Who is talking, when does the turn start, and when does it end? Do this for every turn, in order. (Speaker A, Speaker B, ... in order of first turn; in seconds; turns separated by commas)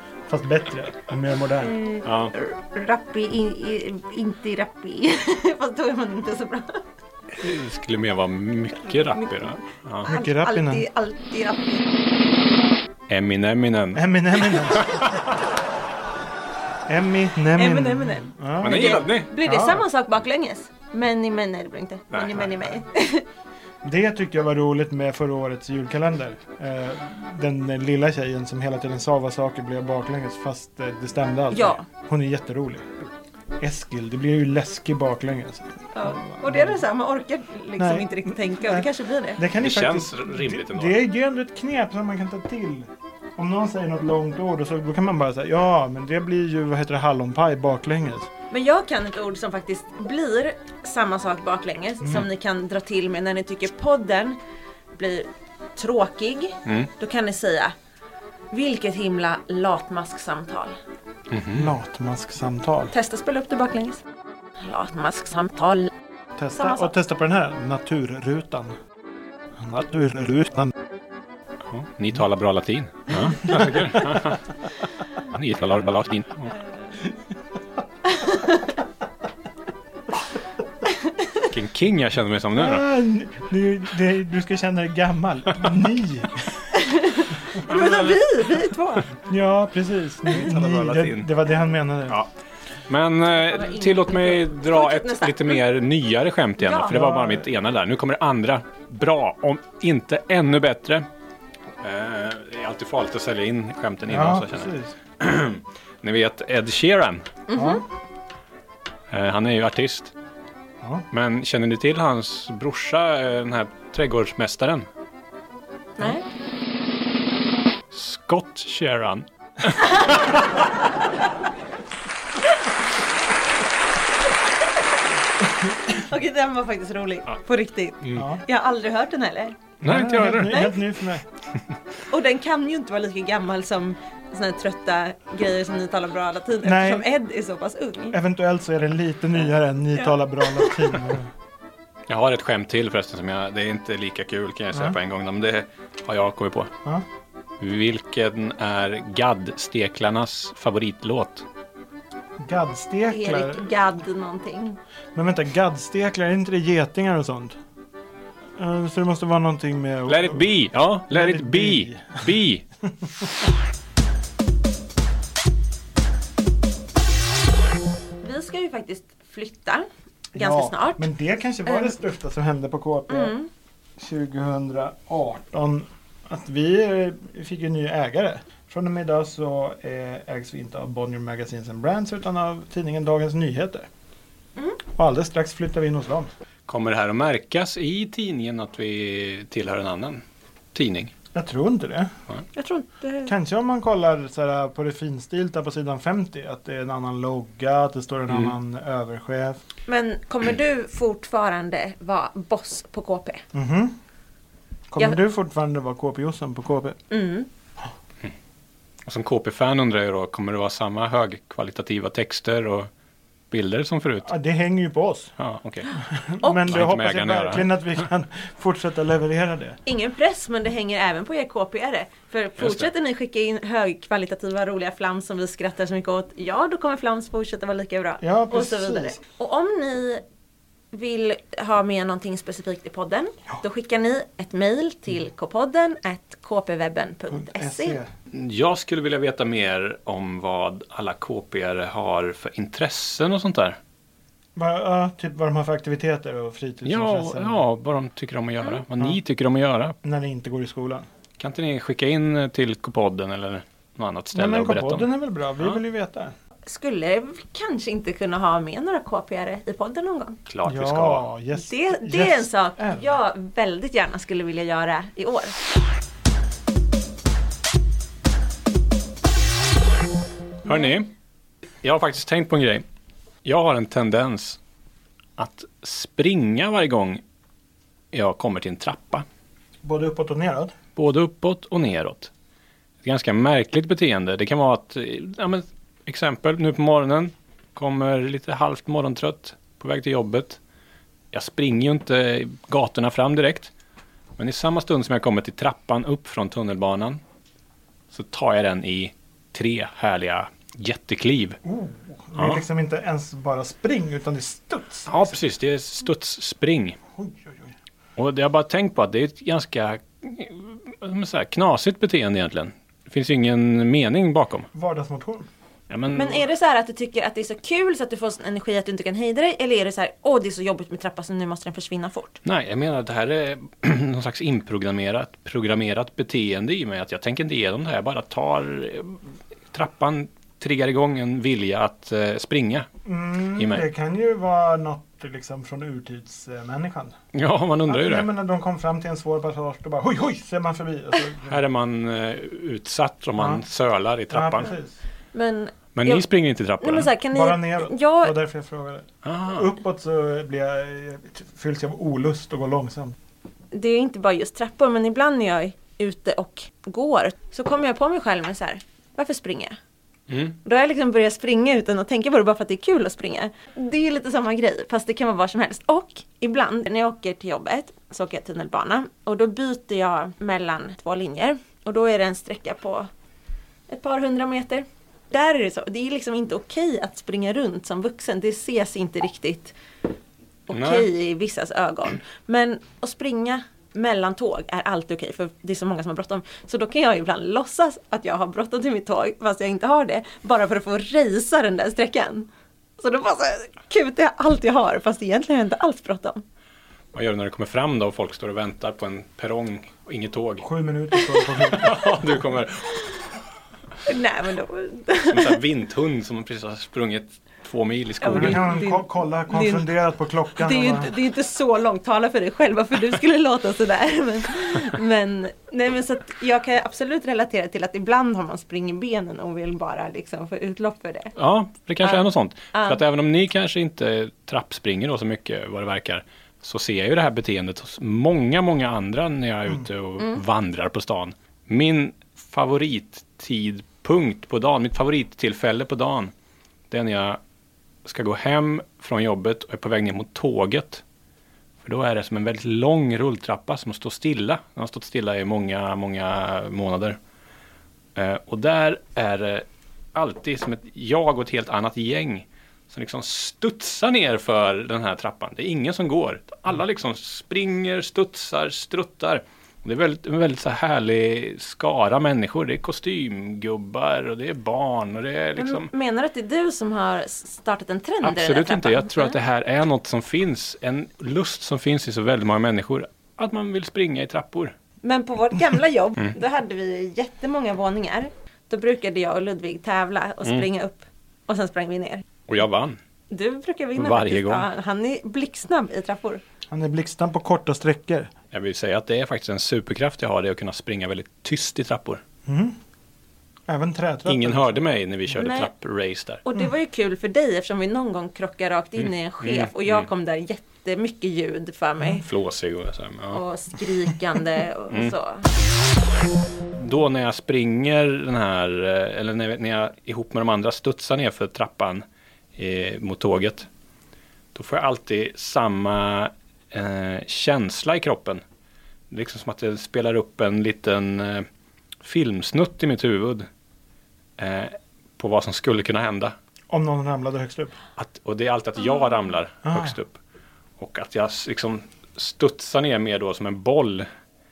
Speaker A: 0.3-1.8, Speaker B: 1.6-6.8, Speaker C: 2.0-2.3, Speaker C: 7.4-10.1, Speaker B: 8.9-9.5, Speaker B: 10.0-11.9, Speaker A: 10.1-10.9, Speaker C: 13.1-15.3, Speaker A: 13.9-15.0, Speaker A: 16.9-19.9, Speaker B: 17.5-23.2, Speaker C: 18.6-19.3, Speaker C: 22.1-22.5, Speaker A: 23.8-32.9, Speaker B: 31.5-31.9, Speaker A: 33.6-36.9, Speaker B: 35.9-39.4, Speaker A: 37.8-48.3, Speaker C: 39.6-41.0, Speaker B: 48.5-54.4, Speaker A: 52.0-52.3, Speaker B: 54.9-57.7, Speaker C: 56.6-56.9, Speaker B: 58.5-60.8, Speaker C: 61.3-61.7, Speaker A: 61.5-62.9, Speaker B: 62.9-64.0, Speaker B: 64.6-65.9, Speaker A: 66.4-68.8, Speaker B: 66.6-66.9, Speaker A: 69.6-70.7, Speaker C: 71.7-74.5, Speaker C: 75.2-76.6, Speaker B: 78.1-78.6, Speaker B: 80.9-81.3, Speaker C: 81.4-82.9, Speaker A: 82.5-86.4, Speaker B: 86.7-89.2, Speaker C: 87.7-88.2, Speaker A: 89.2-92.2, Speaker C: 90.3-91.3, Speaker C: 92.9-101.1, Speaker B: 93.3-95.6, Speaker B: 96.6-97.0, Speaker A: 96.9-97.5, Speaker C: 101.8-107.3, Speaker A: 104.1-105.0, Speaker B: 107.5-107.8, Speaker A: 107.5-107.8, Speaker C: 109.1-110.1, Speaker A: 110.8-111.1, Speaker C: 111.1-114.9, Speaker B: 116.0-116.2, Speaker C: 117.9-120.5, Speaker B: 125.9-129.6, Speaker A: 128.1-128.4, Speaker C: 129.8-130.7, Speaker A: 129.8-131.3, Speaker B: 130.4-130.8, Speaker B: 132.1-138.2, Speaker A: 136.6-137.1, Speaker A: 138.1-141.3, Speaker B: 139.9-140.9, Speaker C: 142.1-146.7, Speaker A: 144.7-145.0, Speaker C: 147.6-151.4, Speaker A: 152.4-153.7, Speaker B: 153.1-154.8, Speaker A: 155.2-157.6, Speaker A: 158.6-162.3, Speaker C: 160.1-162.7, Speaker B: 168.2-171.1, Speaker A: 170.3-173.4, Speaker B: 171.7-171.9, Speaker B: 173.1-173.5, Speaker A: 174.0-183.9, Speaker A: 184.9-186.3, Speaker C: 186.7-190.2, Speaker C: 190.8-191.1, Speaker A: 191.3-192.1, Speaker B: 192.5-193.3, Speaker A: 193.3-199.6, Speaker C: 198.3-198.6, Speaker B: 199.9-203.4, Speaker A: 203.5-203.9, Speaker A: 204.9-207.0, Speaker B: 207.1-207.5, Speaker C: 209.1-212.9, Speaker C: 213.5-214.3, Speaker A: 214.2-215.3, Speaker C: 215.4-216.0, Speaker A: 216.0-219.8, Speaker B: 216.4-216.7, Speaker C: 216.6-217.7, Speaker B: 219.9-230.2, Speaker C: 222.6-222.9, Speaker A: 228.2-229.2, Speaker B: 230.9-238.0, Speaker A: 237.3-238.1, Speaker C: 238.3-243.8, Speaker A: 244.6-247.6, Speaker C: 246.8-249.9, Speaker A: 250.0-251.1, Speaker C: 251.4-255.1, Speaker A: 254.3-256.3, Speaker B: 256.7-260.4, Speaker C: 260.5-261.3, Speaker A: 260.6-263.1, Speaker B: 261.5-265.6, Speaker C: 270.6-271.1, Speaker C: 271.8-272.9, Speaker C: 273.4-274.6, Speaker C: 275.4-277.2, Speaker C: 278.1-279.3, Speaker A: 279.8-280.7, Speaker C: 281.0-282.3, Speaker C: 283.0-290.6, Speaker C: 291.3-293.7, Speaker C: 294.4-297.2, Speaker C: 298.1-301.6, Speaker A: 301.6-305.4, Speaker C: 302.4-302.6, Speaker C: 305.1-307.0, Speaker A: 307.2-307.8, Speaker C: 308.2-314.7, Speaker A: 314.7-315.5, Speaker C: 315.9-316.4, Speaker B: 316.1-322.4, Speaker C: 322.4-329.2, Speaker C: 329.7-332.9, Speaker A: 333.1-337.1, Speaker C: 333.6-333.8, Speaker C: 337.3-338.3, Speaker A: 337.9-341.6, Speaker C: 341.5-344.7, Speaker A: 343.4-343.6, Speaker A: 344.3-345.0, Speaker B: 345.3-346.3, Speaker C: 345.9-347.1, Speaker B: 346.8-348.3, Speaker A: 347.3-353.1, Speaker C: 349.2-349.7, Speaker B: 353.7-359.8, Speaker C: 360.3-360.6, Speaker B: 360.6-373.1, Speaker B: 373.9-379.8, Speaker B: 380.7-396.4, Speaker C: 380.7-381.1, Speaker C: 397.1-400.6, Speaker A: 400.6-402.0, Speaker C: 401.6-403.2, Speaker B: 404.1-405.6, Speaker C: 405.3-408.8, Speaker B: 408.2-409.9, Speaker A: 408.2-411.1, Speaker B: 410.6-421.3, Speaker C: 421.4-436.3, Speaker B: 422.0-423.0, Speaker C: 436.9-437.4, Speaker C: 438.1-441.0, Speaker C: 441.9-447.2, Speaker C: 448.2-465.9, Speaker B: 465.6-469.4, Speaker C: 468.2-474.7, Speaker B: 475.0-482.2, Speaker C: 482.5-483.0, Speaker B: 483.3-486.4, Speaker C: 484.0-484.7, Speaker A: 486.7-488.3, Speaker C: 488.5-492.2, Speaker A: 492.5-492.8, Speaker A: 493.7-494.8, Speaker C: 494.3-496.4, Speaker B: 495.3-495.7, Speaker B: 496.5-502.3, Speaker C: 499.4-500.1, Speaker C: 502.2-503.4, Speaker B: 503.3-505.5, Speaker C: 506.8-512.0, Speaker C: 512.6-513.7, Speaker C: 514.5-518.4, Speaker C: 519.1-521.5, Speaker C: 522.0-523.5, Speaker C: 524.4-526.4, Speaker A: 526.7-527.8, Speaker C: 528.0-530.2, Speaker A: 529.6-530.0, Speaker C: 530.8-534.1